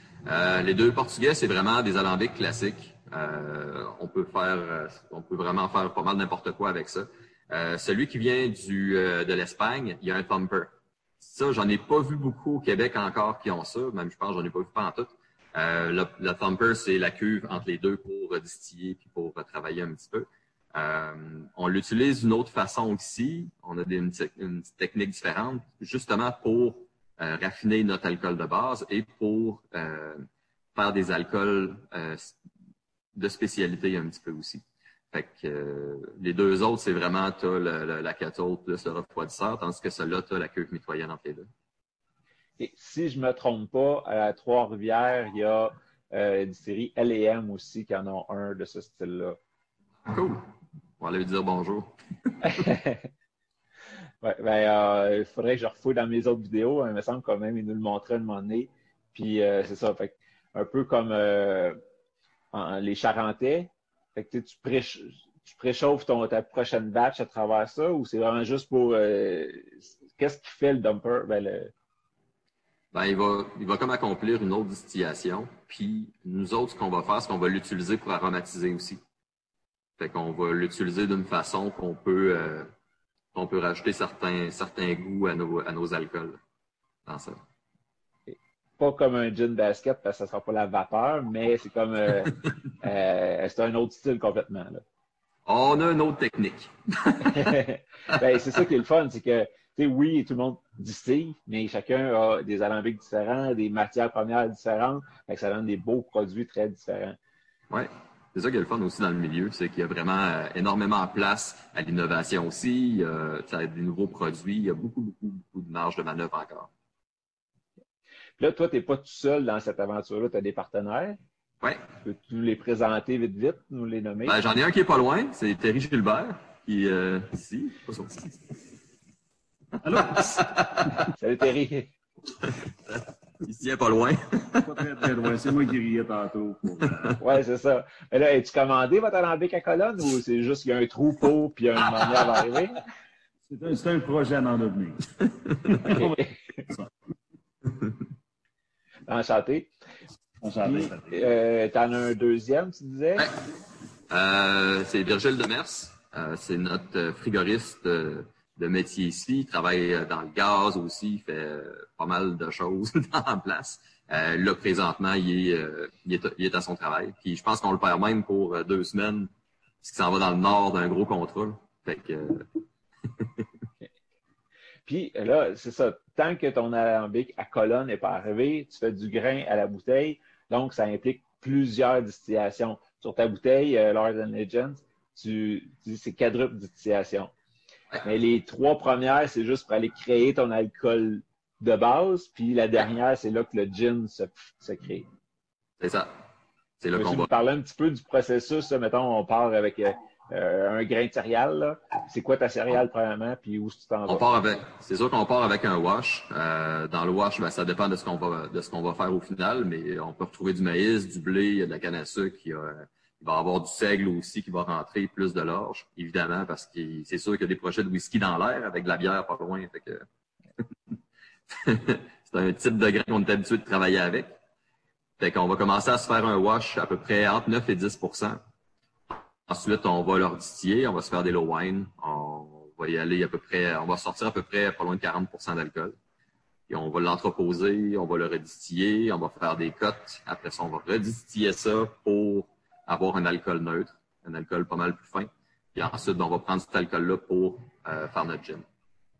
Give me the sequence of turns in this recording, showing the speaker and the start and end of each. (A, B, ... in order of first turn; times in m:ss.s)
0:00.2-0:32.3 A
0:33.1-0:41.5 A
0:42.6-0:49.4 B
0:50.0-0:50.4 A
0:51.0-0:51.9 A
0:52.4-0:53.1 B
0:54.2-1:01.8 B
1:02.5-1:11.7 B
1:12.9-1:19.0 A
1:20.0-1:22.7 A
1:23.3-1:26.4 A
1:27.0-1:27.4 A
1:28.3-1:34.8 B
1:35.4-1:37.6 A
1:37.2-1:47.2 B
1:47.7-1:56.7 A
1:58.4-2:01.2 B
2:02.0-2:04.4 B
2:04.2-2:08.5 A
2:09.8-2:10.6 C
2:09.9-2:11.0 A
2:11.1-2:11.9 B
2:12.4-2:15.0 A
2:14.6-2:17.2 C
2:17.2-2:22.8 B
2:23.5-2:26.9 C
2:25.9-2:26.2 B
2:29.1-2:29.7 B
2:30.4-2:31.3 C
2:30.6-2:33.3 B
2:34.1-2:49.3 A
2:49.8-2:52.5 A
2:53.1-2:53.4 A
2:54.8-3:07.3 B
3:08.0-3:15.1 B
3:15.8-3:16.2 A
3:16.8-3:17.3 A
3:16.9-3:24.2 B
3:24.1-3:40.0 A
3:41.5-3:44.3 A
3:45.2-3:48.4 A
3:49.1-3:56.0 A
3:56.7-4:08.6 A